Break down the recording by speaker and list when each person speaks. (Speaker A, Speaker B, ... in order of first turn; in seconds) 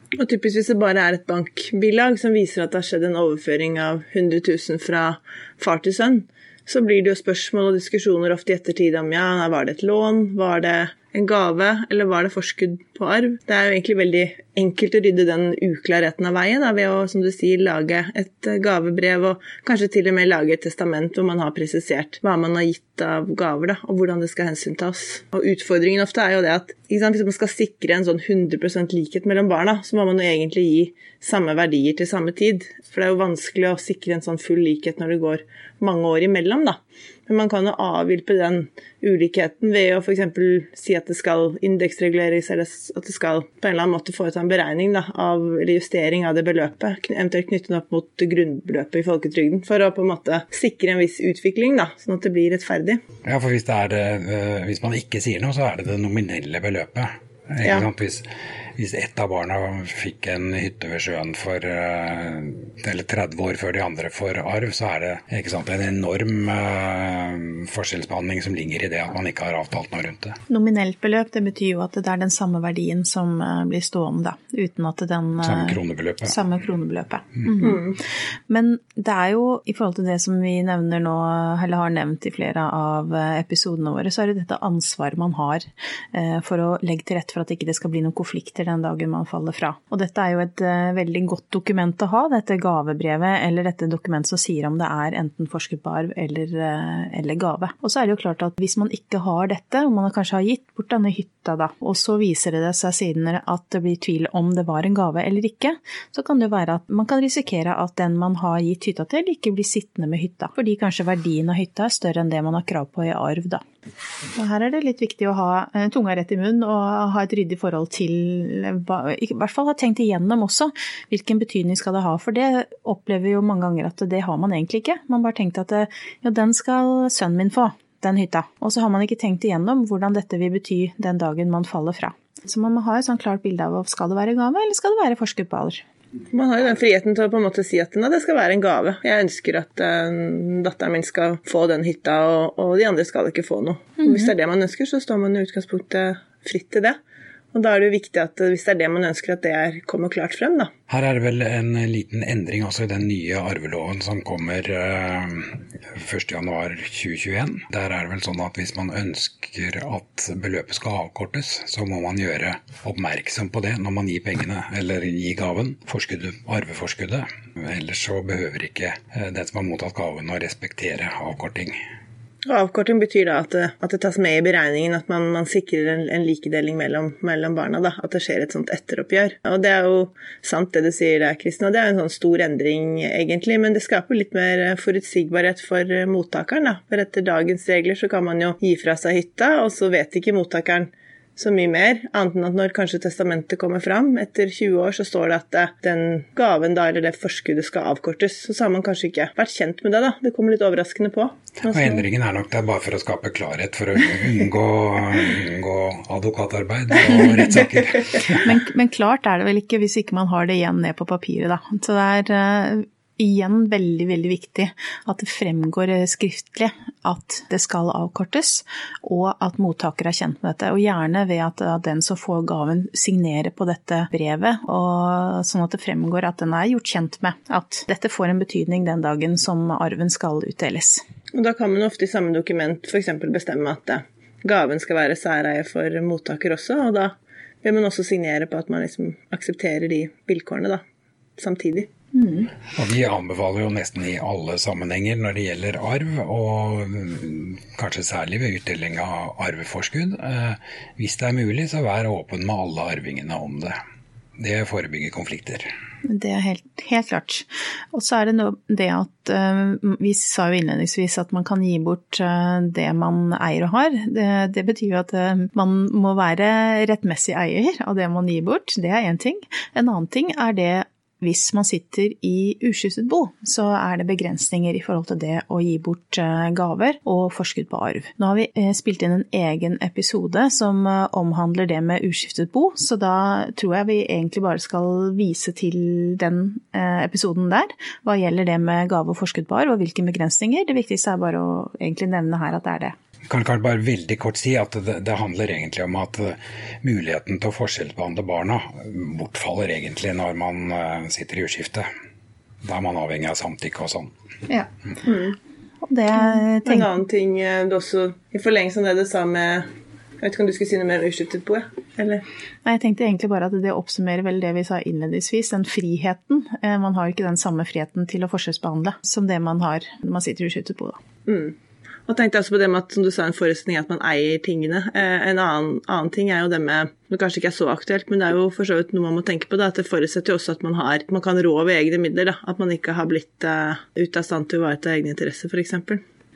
Speaker A: 0.2-53.0, 77.6-78.0, 136.3-146.9, 147.5-150.7, 172.5-202.0, 231.3-240.8, 241.4-241.9, 305.0-305.4, 306.1-309.7, 310.2-312.2, 321.2-321.5, 322.1-336.0
Speaker B: 53.2-58.2, 58.8-70.4, 75.4-76.3, 150.9-171.8, 201.7-208.5, 242.7-253.7, 254.4-255.7, 293.3-301.9, 302.6-304.1
Speaker C: 70.5-77.9, 78.5-113.6, 114.3-135.8, 144.0-144.3, 208.3-231.0, 242.1-242.5, 256.0-292.9, 305.8-306.9, 312.6-321.0